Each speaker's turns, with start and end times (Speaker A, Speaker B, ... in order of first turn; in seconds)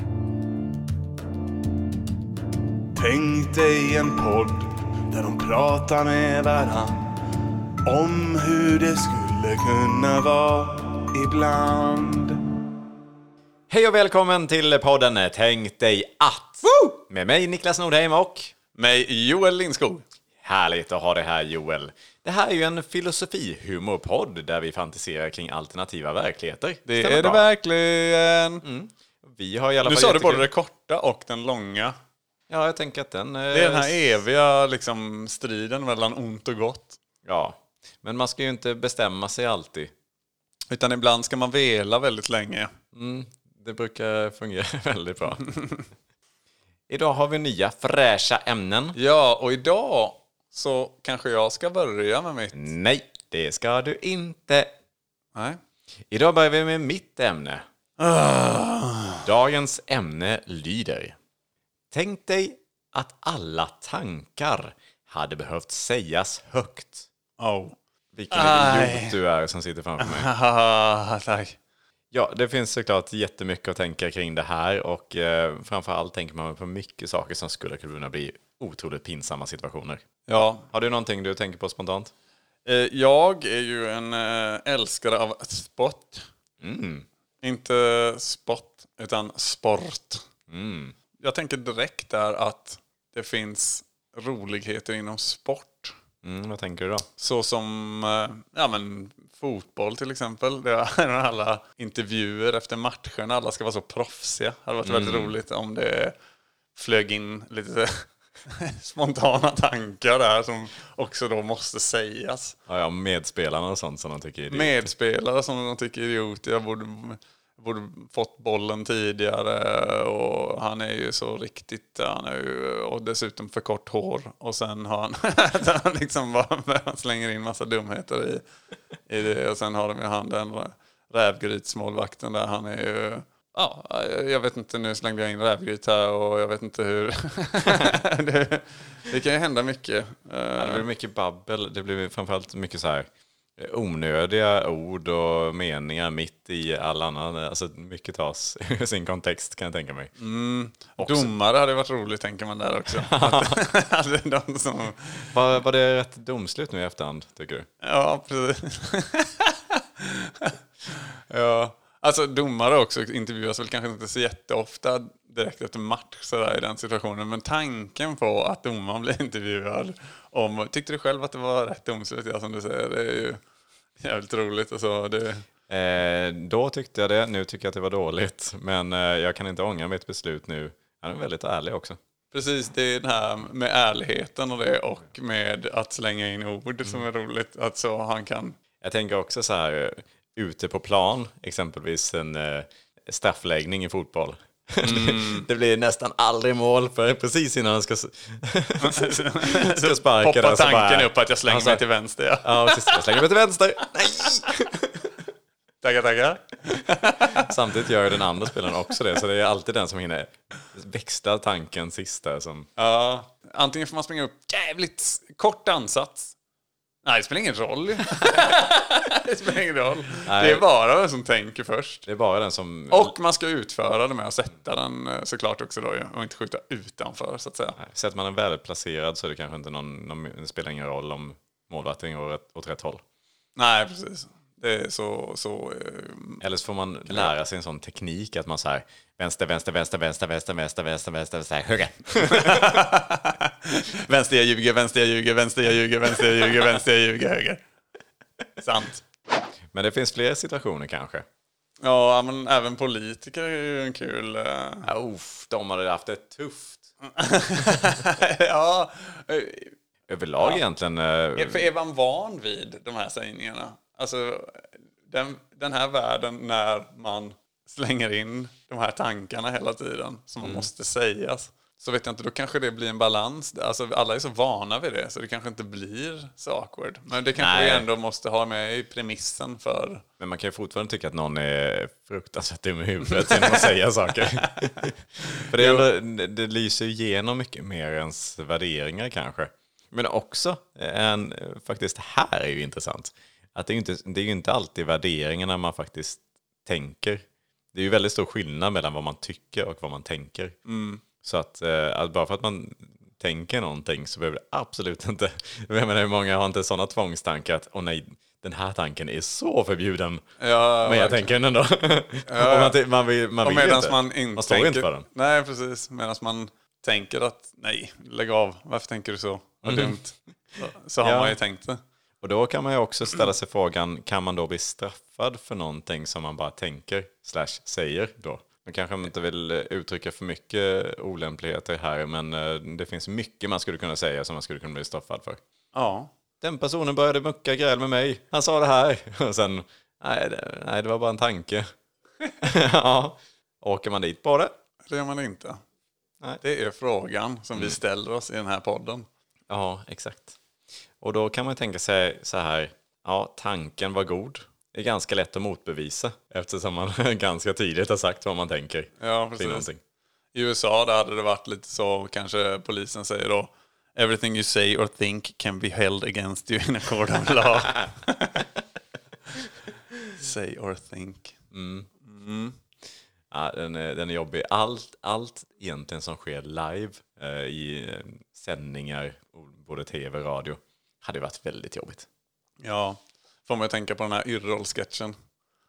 Speaker A: 2.9-7.0, 7.8-12.4
Speaker B: 13.7-18.5, 20.4-27.5, 28.6-30.5, 32.5-34.1, 37.2-39.9, 42.9-45.6, 46.9-49.0, 52.5-54.7, 56.1-57.6, 59.2-61.2, 61.9-67.1, 68.1-70.3, 72.1-82.1, 86.6-87.1, 90.5-90.9, 96.2-97.1, 104.8-105.3, 112.7-114.9, 140.6-150.1, 151.0-151.3, 153.0-153.6, 155.3-157.7, 175.7-182.0, 188.8-201.8, 202.4-205.1, 207.2-212.7, 220.2-220.6, 222.1-223.1, 227.8-233.0, 236.4-242.8, 249.7-251.2, 254.8-256.9, 260.1-261.7, 270.4-270.7, 277.4-277.9, 280.2-300.6, 301.2-310.2, 310.8-315.1, 319.6-320.0, 321.0-321.4, 322.2-335.4, 336.4-341.7, 342.4-344.5, 349.5-350.4, 351.0-359.8, 371.5-371.9, 373.3-382.1
Speaker C: 18.7-20.0, 26.9-28.6, 29.8-31.9, 33.5-37.0, 40.7-42.7, 49.0-52.7, 55.3-55.6, 58.0-59.2, 67.4-67.8, 68.3-69.2, 70.0-71.6, 80.3-80.7, 82.7-86.3, 87.4-90.2, 91.2-95.9, 97.2-106.1, 106.8-112.6, 114.5-128.4, 129.1-140.9, 150.2-155.3, 157.8-173.4, 174.0-175.4, 182.3-188.6, 194.8-195.5, 198.8-203.2, 205.8-207.6, 208.1-208.7, 212.8-216.3, 217.0-222.1, 222.9-227.8, 233.6-236.4, 242.2-247.6, 248.6-249.0, 251.8-254.9, 257.0-259.7, 261.4-280.0, 283.1-283.7, 285.5-285.9, 300.6-301.0, 310.4-311.3, 312.3-312.8, 313.4-321.8, 335.7-336.1, 344.9-345.6, 346.4-349.1, 359.0-359.7, 360.3-368.4, 370.1-371.4, 372.0-372.6, 382.6-385.1